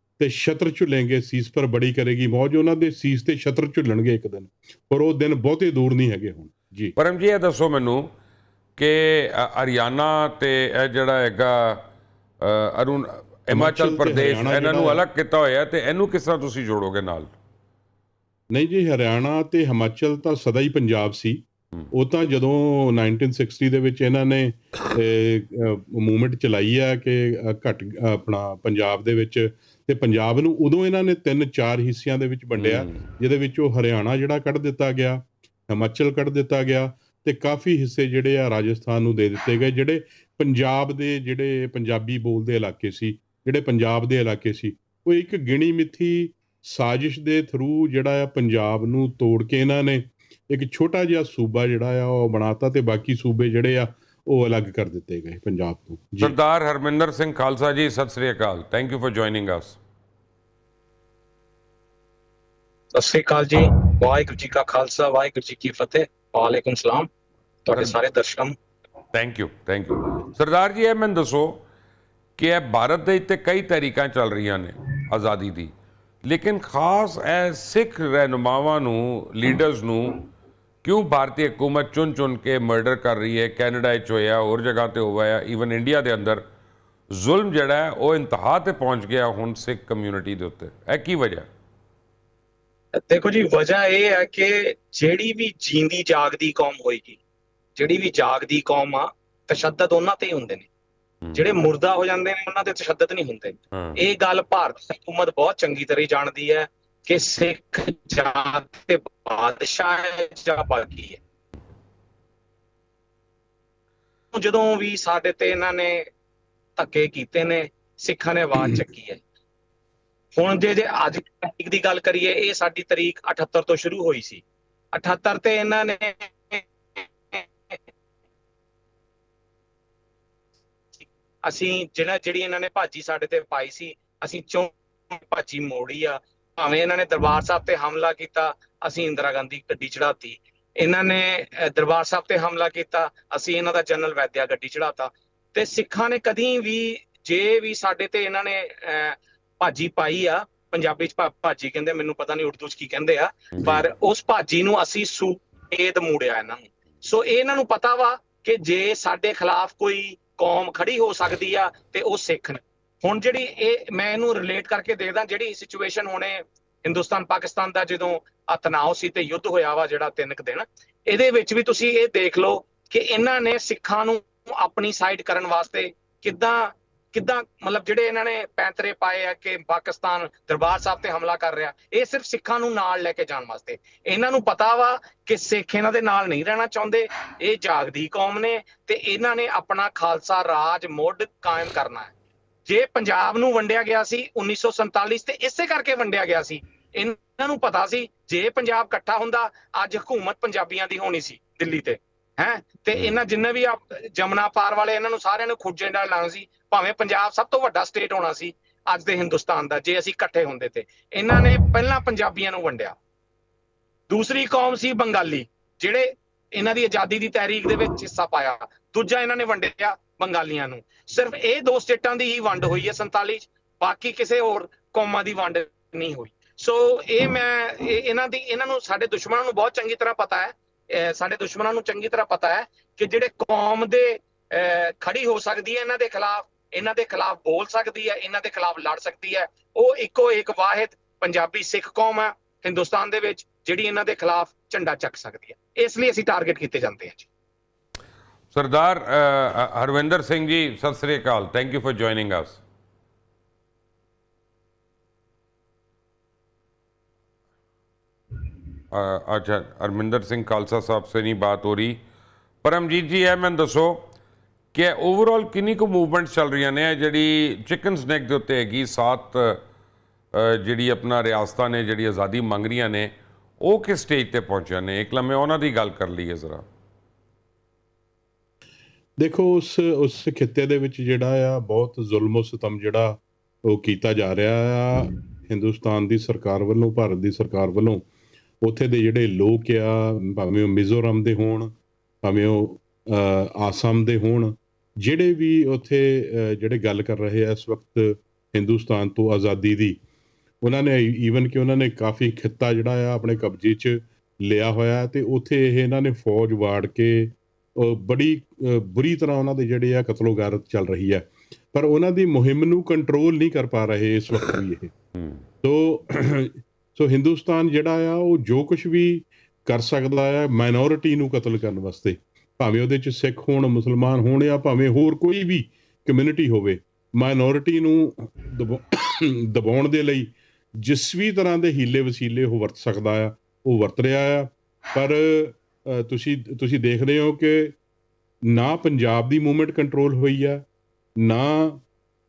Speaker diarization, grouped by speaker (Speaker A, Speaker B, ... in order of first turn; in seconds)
Speaker A: 0.2-7.0, 13.5-15.0, 18.5-56.3, 279.2-288.0, 288.6-291.7, 292.2-300.0, 300.6-314.9, 315.6-337.8, 338.5-340.6, 341.2-341.8
Speaker B: 7.0-8.1, 8.8-11.8, 12.4-17.3, 32.6-33.0, 56.2-59.8, 67.7-68.4, 69.1-71.6, 72.4-80.2, 80.8-86.4, 87.1-91.5, 101.2-102.1, 103.0-104.5, 153.5-153.9, 248.5-252.6, 258.9-262.0, 262.6-264.0, 264.7-269.6, 270.3-276.7, 315.2-315.4
Speaker C: 63.0-67.1, 67.7-68.5, 93.1-97.2, 97.8-100.7, 101.3-111.2, 114.3-116.0, 116.8-119.2, 120.4-124.4, 124.9-127.8, 131.4-192.1, 192.7-212.9, 214.1-247.3